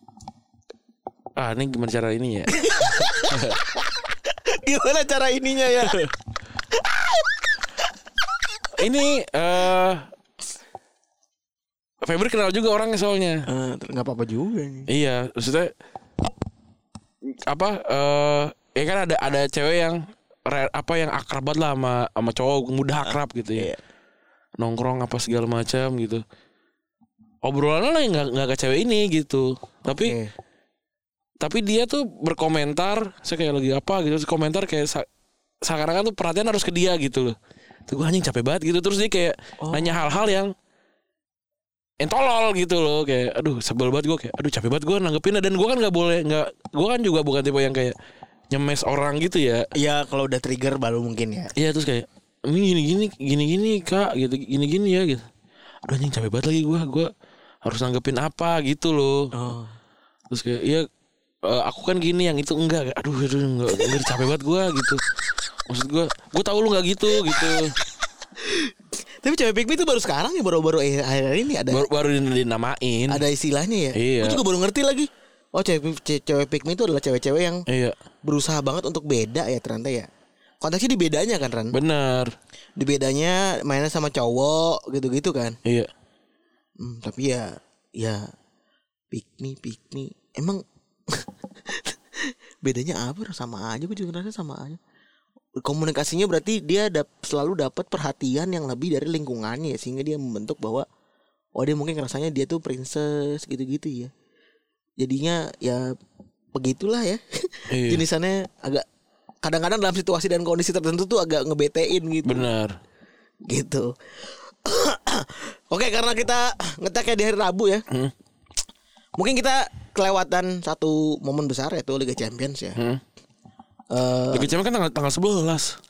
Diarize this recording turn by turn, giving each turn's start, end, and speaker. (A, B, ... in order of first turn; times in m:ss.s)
0:01.4-0:03.6 A
0:02.5-0:06.0 B
0:05.8-0:06.1 A
0:06.8-0:07.3 B
0:08.8-0:10.1 A
0:12.0-0:13.4 A
0:13.5-0:14.9 B
0:14.9-0:15.7 A
0:17.5-0:23.7 A
0:23.1-0:23.8 B
0:24.6-0:26.2 A
0:27.4-0:30.2 A
0:29.9-0:30.3 B
0:31.4-0:35.1 A
0:35.6-0:37.4 A
0:37.9-0:40.5 A
0:39.6-0:40.1 B
0:42.0-0:48.0 A
0:48.5-0:49.7 A
0:49.8-0:51.5 B
0:51.6-0:55.3 A
0:55.9-0:57.1 A
0:57.6-0:59.3 A
0:59.3-0:59.7 B
1:00.3-1:00.9 A
1:01.4-1:05.0 A
1:05.7-1:07.7 A
1:08.4-1:08.7 B
1:09.2-1:11.9 B
1:11.7-1:13.2 A
1:13.1-1:17.6 B
1:14.0-1:14.4 A
1:17.7-1:18.0 A
1:18.2-1:20.1 B
1:20.6-1:21.8 B
1:21.7-1:22.3 A
1:22.8-1:25.6 B
1:25.6-1:25.9 A
1:26.8-1:28.3 B
1:29.1-1:34.8 B
1:35.6-1:40.9 B
1:41.6-1:44.1 B
1:45.0-1:45.9 B
1:46.6-1:48.8 B
1:47.7-1:48.0 A
1:49.4-1:52.5 B
1:52.2-1:52.7 A
1:53.5-1:53.9 B
1:54.5-1:57.8 B
1:59.2-2:02.8 B
2:02.8-2:03.0 A
2:03.9-2:04.5 B
2:04.3-2:05.8 A